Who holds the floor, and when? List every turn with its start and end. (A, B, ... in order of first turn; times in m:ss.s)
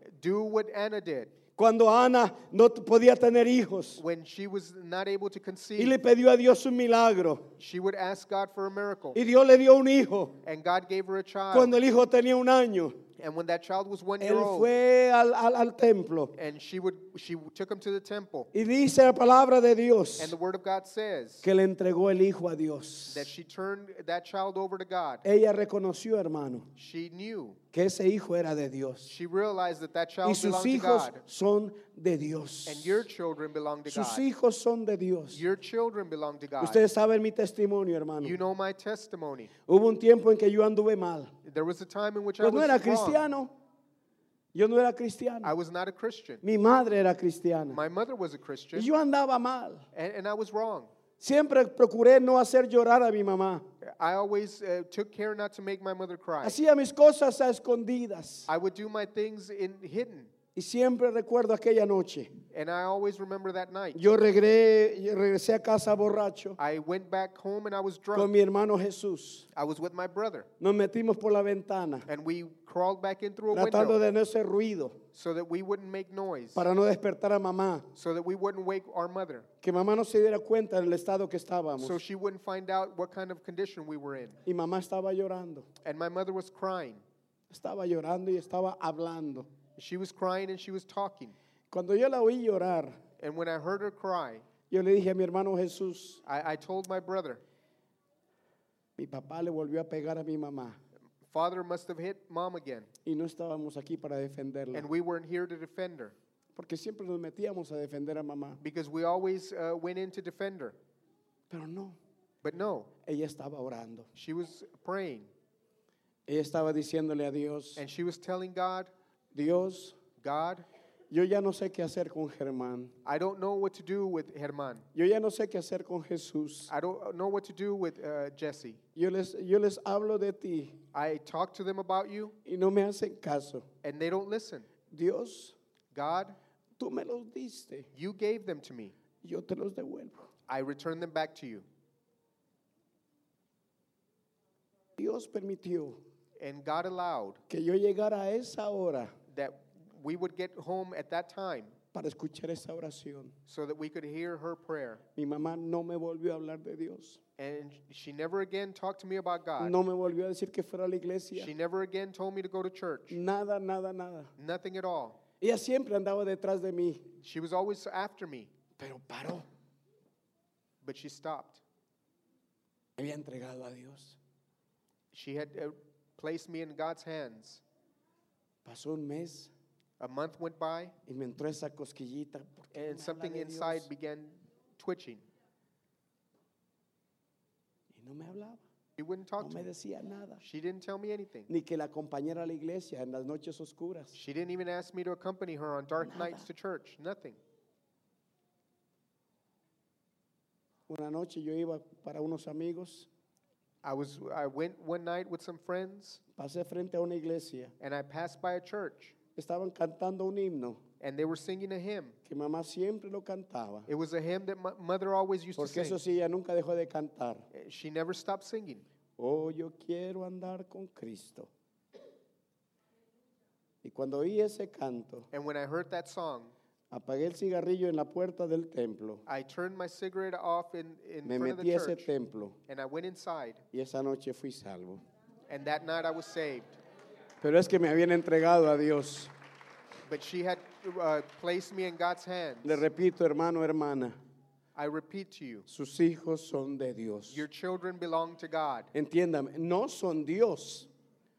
0:00.2-0:01.3 A
0:01.6-0:04.0 B
0:04.0-0:06.0 A
0:05.8-0:07.4 B
0:07.6-0:09.2 A
0:09.1-0:10.3 B
0:10.4-0:11.7 A
0:11.5-0:13.0 B
0:13.2-0:14.7 A
0:14.2-0:16.3 B
0:16.3-0:18.5 A
0:18.5-0:20.3 B
0:20.2-0:21.4 A
0:21.4-0:23.3 B
0:23.1-0:25.2 A
0:25.2-0:26.6 B
0:26.8-0:27.6 A
0:27.7-0:29.1 B
0:29.0-0:31.2 A
0:30.2-0:33.0 B
0:32.6-0:34.2 A
0:33.9-0:35.4 B
0:35.3-0:36.8 A
0:36.6-0:38.4 B
0:38.2-0:39.5 A
0:39.7-0:41.3 B
0:41.4-0:43.2 A
0:42.4-0:43.5 B
0:44.5-0:45.5 B
0:45.4-0:46.4 A
0:46.4-0:47.8 B
0:47.7-0:48.9 A
0:48.7-0:49.8 B
0:49.9-0:50.9 A
0:51.2-0:53.6 B
0:53.8-0:56.6 A
0:56.4-0:58.5 B
0:58.5-1:00.3 A
1:00.5-1:02.3 B
1:02.5-1:04.1 A
1:03.9-1:06.6 B
1:06.6-1:08.3 A
1:08.1-1:09.4 B
1:09.5-1:10.5 A
1:10.6-1:12.0 B
1:12.0-1:14.0 A
1:13.5-1:15.0 B
1:15.1-1:16.6 A
1:16.5-1:17.8 B
1:18.0-1:19.5 A
1:19.6-1:22.0 B
1:21.8-1:24.4 A
1:24.4-1:25.7 B
1:25.8-1:27.0 A
1:27.5-1:29.5 B
1:29.8-1:31.4 A
1:31.7-1:33.0 B
1:33.2-1:34.4 A
1:34.7-1:36.2 B
1:36.2-1:37.4 A
1:39.0-1:40.8 B
1:41.3-1:42.9 A
1:43.0-1:44.9 B
1:44.7-1:46.1 A
1:46.5-1:48.6 B
1:48.6-1:50.8 A
1:51.5-1:52.0 B
1:52.4-1:52.9 A
1:53.0-1:54.1 B
1:54.1-1:55.3 A
1:56.3-1:57.8 B
1:57.8-1:58.9 A
1:59.3-2:00.0 B
2:00.2-2:00.6 A
2:01.1-2:02.9 B
2:03.0-2:04.8 A
2:04.9-2:06.7 B
2:06.7-2:08.8 A
2:08.9-2:10.8 B
2:10.9-2:12.3 A
2:12.4-2:13.6 B
2:13.8-2:14.7 A
2:14.9-2:15.5 B
2:15.9-2:16.4 A
2:16.8-2:17.9 B
2:17.9-2:18.9 A
2:19.2-2:20.2 B
2:20.5-2:21.6 A
2:25.0-2:26.0 B
2:26.4-2:27.4 A
2:27.5-2:29.1 B
2:29.3-2:31.7 A
2:31.9-2:33.3 B
2:33.5-2:35.0 A
2:35.2-2:37.2 B
2:37.4-2:39.8 A
2:39.6-2:41.5 B
2:41.3-2:43.2 A
2:43.1-2:44.3 B
2:44.4-2:45.2 A
2:45.4-2:47.0 B
2:47.2-2:48.5 A
2:48.8-2:49.4 B
2:50.8-2:51.6 A
2:53.0-2:54.2 B
2:55.1-2:57.6 A
2:58.6-2:59.5 B
3:00.0-3:00.9 A
3:01.0-3:03.9 B
3:02.7-3:05.2 A
3:07.9-3:08.6 B
3:09.0-3:09.7 A
3:09.4-3:10.4 B
3:10.4-3:11.5 A
3:11.5-3:14.1 B
3:14.1-3:17.4 A
3:16.0-3:16.4 B
3:20.9-3:23.1 B
3:23.8-3:26.2 A
3:26.4-3:27.7 B
3:27.8-3:29.1 A
3:29.4-3:30.8 B
3:31.0-3:32.2 A
3:32.3-3:33.9 B
3:33.9-3:36.0 A
3:35.6-3:37.4 B
3:37.5-3:38.8 A
3:39.2-3:41.5 B
3:43.8-3:45.3 B
3:45.3-3:46.5 A
3:46.9-3:49.2 B
3:49.2-3:52.1 A
3:51.2-3:52.6 B
3:52.7-3:53.6 A
3:53.7-3:55.0 B
3:55.5-3:56.8 A
3:57.4-3:59.3 B
4:00.1-4:02.8 A
4:02.6-4:04.2 B
4:04.8-4:05.6 A
4:05.7-4:07.4 B
4:07.3-4:08.9 A
4:08.9-4:10.9 B